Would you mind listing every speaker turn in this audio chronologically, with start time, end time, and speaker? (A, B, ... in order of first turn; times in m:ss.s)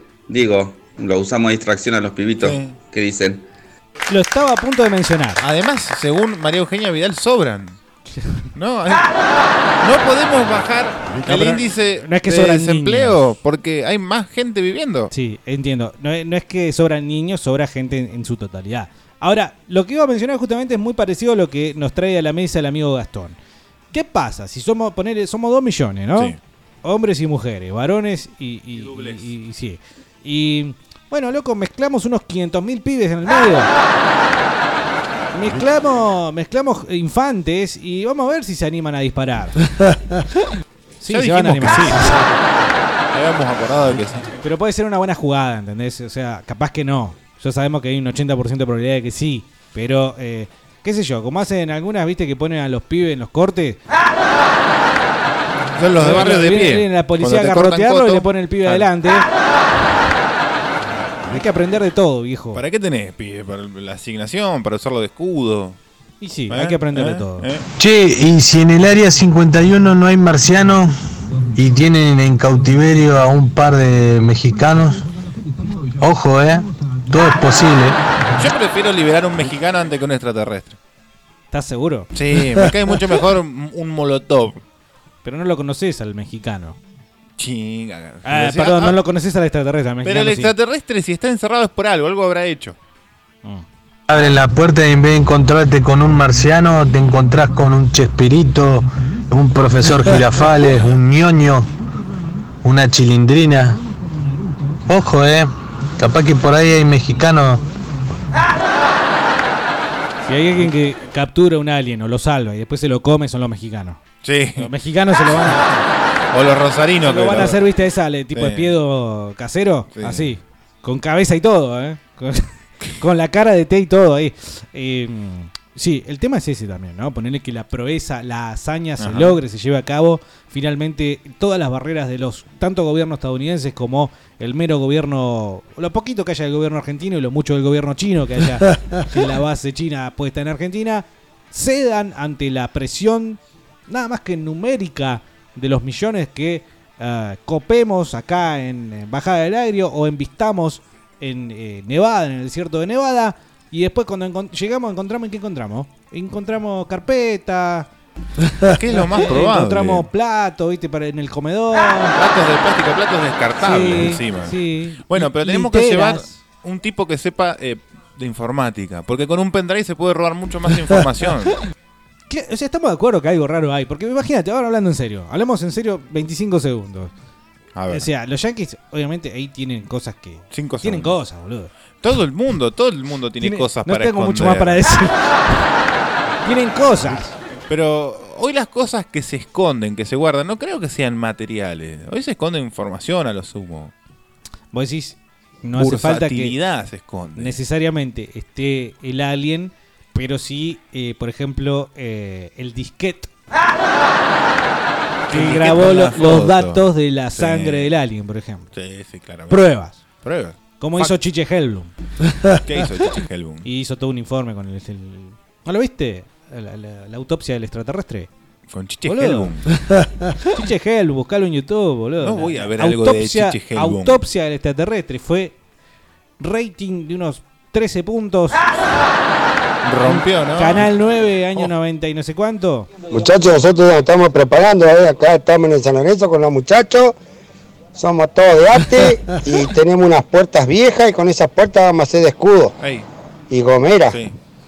0:00.3-0:03.4 A
0:02.4-0:02.8 B
0:04.1-0:05.4 C
0:05.4-0:07.8 B
0:08.1-0:08.5 C
0:08.5-0:09.1 B
0:09.8-0:15.1 B
0:11.3-0:13.2 C
0:15.1-0:23.4 C
0:23.9-0:33.7 C
0:28.7-0:29.3 B
0:35.3-0:39.6 C
0:41.0-0:42.2 C
0:41.1-0:42.5 B
0:43.1-0:44.3 B
0:44.4-0:53.8 C
0:55.8-0:58.9 B
0:56.0-0:59.2 C
1:01.2-1:02.6 C
1:02.5-1:05.8 B
1:06.2-1:07.5 C
1:06.5-1:07.6 B
1:07.8-1:10.9 D
1:11.6-1:15.0 D
1:16.0-1:18.0 D
1:18.4-1:20.8 B
1:21.5-1:22.1 C
1:22.1-1:24.6 B
1:25.2-1:26.8 C
1:27.4-1:29.0 B
1:28.2-1:30.5 C
1:30.0-1:32.8 B
1:34.1-1:41.7 D
1:42.6-1:43.8 D
1:44.9-1:47.6 D
1:50.2-1:54.0 C
1:54.2-1:54.7 B
1:54.6-1:55.7 C
1:55.3-1:57.6 B
1:57.0-2:37.9 C
1:58.3-1:58.7 B
1:59.9-2:00.4 B
2:09.0-2:09.4 B
2:38.6-2:40.0 B
2:39.2-2:42.1 C
2:42.1-2:51.5 B
2:43.6-2:46.4 C
2:52.3-2:57.1 C
2:57.7-2:58.1 B
2:57.9-3:01.7 C
3:00.5-3:01.2 B
3:02.0-3:04.8 B
3:03.4-3:05.6 C
3:06.4-3:07.3 C
3:07.1-3:13.9 B
3:14.7-3:16.5 C
3:15.8-3:17.6 B
3:17.4-3:23.3 C
3:25.3-3:27.9 B
3:25.3-3:28.7 C
3:28.7-3:29.7 B
3:29.5-3:30.0 C
3:30.2-3:31.1 B
3:30.8-3:31.9 C
3:32.6-3:33.6 B
3:33.6-3:38.3 C
3:38.7-3:39.7 B
3:39.0-3:39.5 C
3:40.5-3:45.5 C
3:42.2-3:44.2 B
3:46.4-3:48.7 C
3:49.8-3:50.9 B
3:50.0-3:52.9 C
3:53.1-3:57.1 E
3:57.9-4:02.7 E
4:02.8-4:03.0 B
4:03.5-4:04.2 E